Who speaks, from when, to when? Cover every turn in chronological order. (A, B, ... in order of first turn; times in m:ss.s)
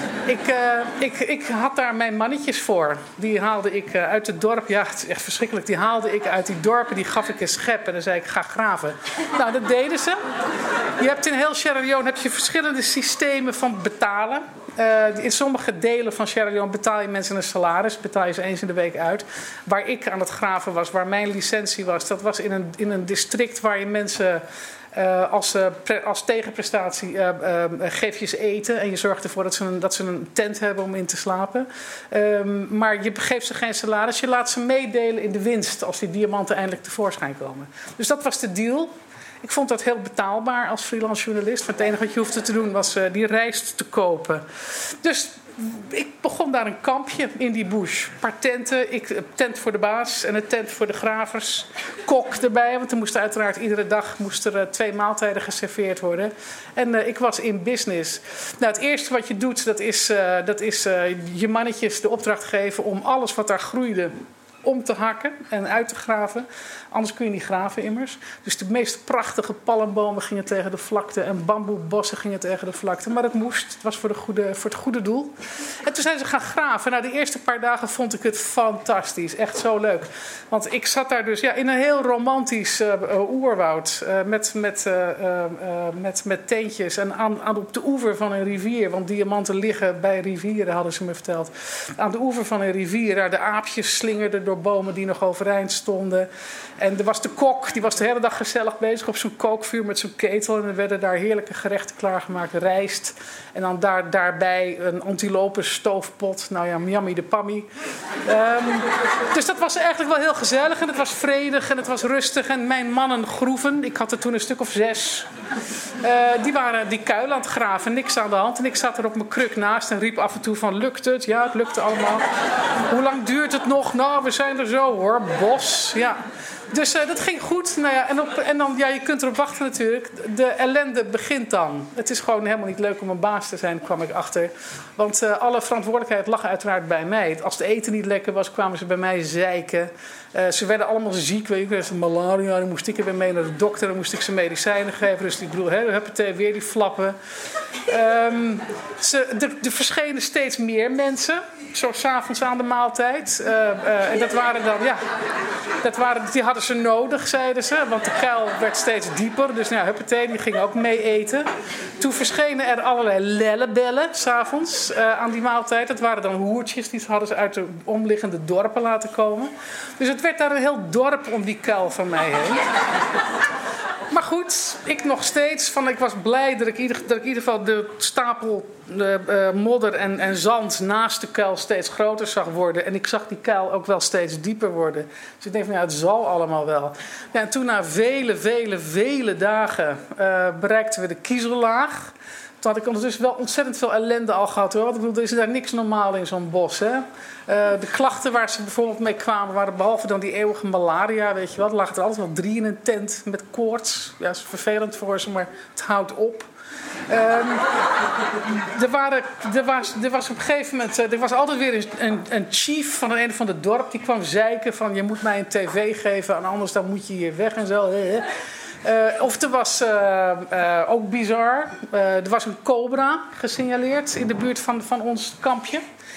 0:00.3-0:10.2 A
0:11.0-1:04.1 A
1:04.6-1:47.7 A
1:48.3-1:55.3 A
1:56.0-2:02.3 A
2:02.9-2:06.2 A
2:06.7-2:27.2 A
2:27.9-2:35.0 A
2:35.8-2:52.6 A
2:54.1-3:26.5 A
3:27.1-3:27.7 A
3:28.7-3:38.3 A
3:38.8-3:45.8 A